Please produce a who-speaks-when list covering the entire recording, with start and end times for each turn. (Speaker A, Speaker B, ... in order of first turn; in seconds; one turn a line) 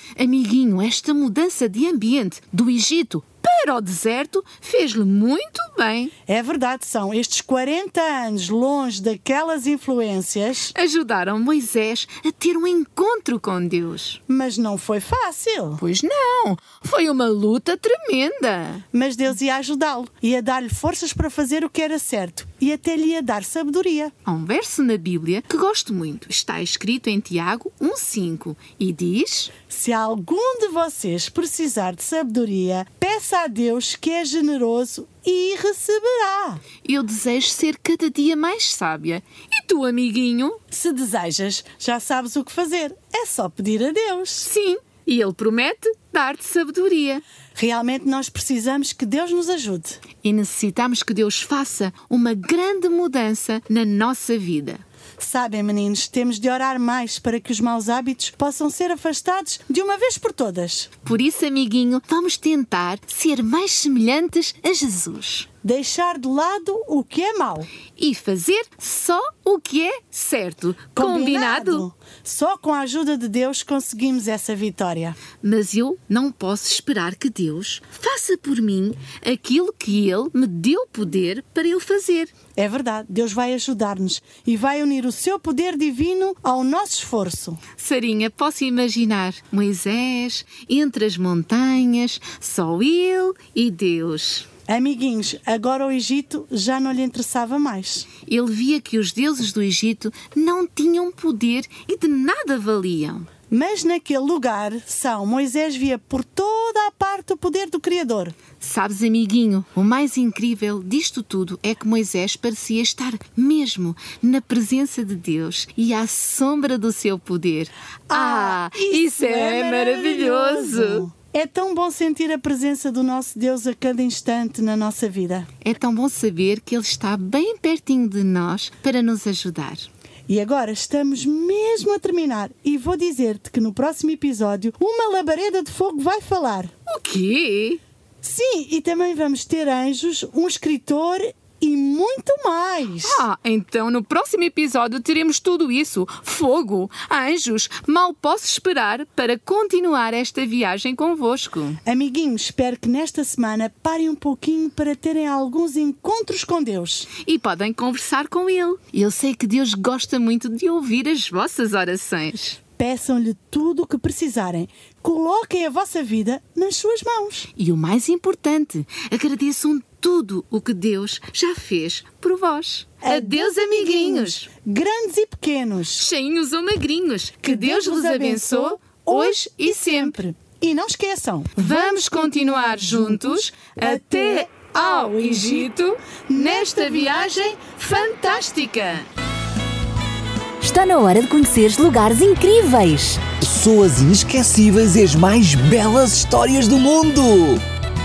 Speaker A: 0.2-6.1
Speaker B: 6.3-10.7
Speaker A: 10.7-14.2
Speaker B: 14.3-15.8
Speaker A: 15.8-18.8
Speaker B: 18.9-24.1
Speaker A: 24.2-29.5
Speaker B: 29.7-36.6
Speaker A: 36.8-40.6
Speaker B: 40.7-44.5
Speaker A: 44.4-47.2
Speaker B: 47.5-50.0
Speaker A: 50.2-54.8
Speaker B: 55.2-60.9
Speaker A: 61.0-65.5
Speaker B: 65.6-67.7
Speaker A: 68.0-71.8
Speaker B: 71.0-75.2
Speaker A: 75.4-82.3
Speaker B: 82.6-87.6
Speaker A: 87.8-94.5
Speaker B: 94.7-98.1
Speaker A: 98.2-103.3
Speaker B: 103.5-108.3
Speaker A: 108.6-121.0
Speaker B: 118.1-125.5
Speaker A: 125.6-129.9
Speaker B: 130.3-136.7
Speaker A: 136.9-137.8
Speaker B: 138.2-143.2
Speaker A: 143.0-151.8
Speaker B: 151.8-157.1
Speaker A: 157.2-162.6
Speaker B: 162.8-167.5
Speaker A: 167.6-174.5
Speaker B: 173.0-176.1
Speaker A: 175.9-180.2
Speaker B: 177.4-182.1
Speaker A: 181.5-189.1
Speaker B: 183.8-184.6
Speaker B: 186.3-187.6
Speaker C: 190.6-193.2
Speaker D: 193.4-197.6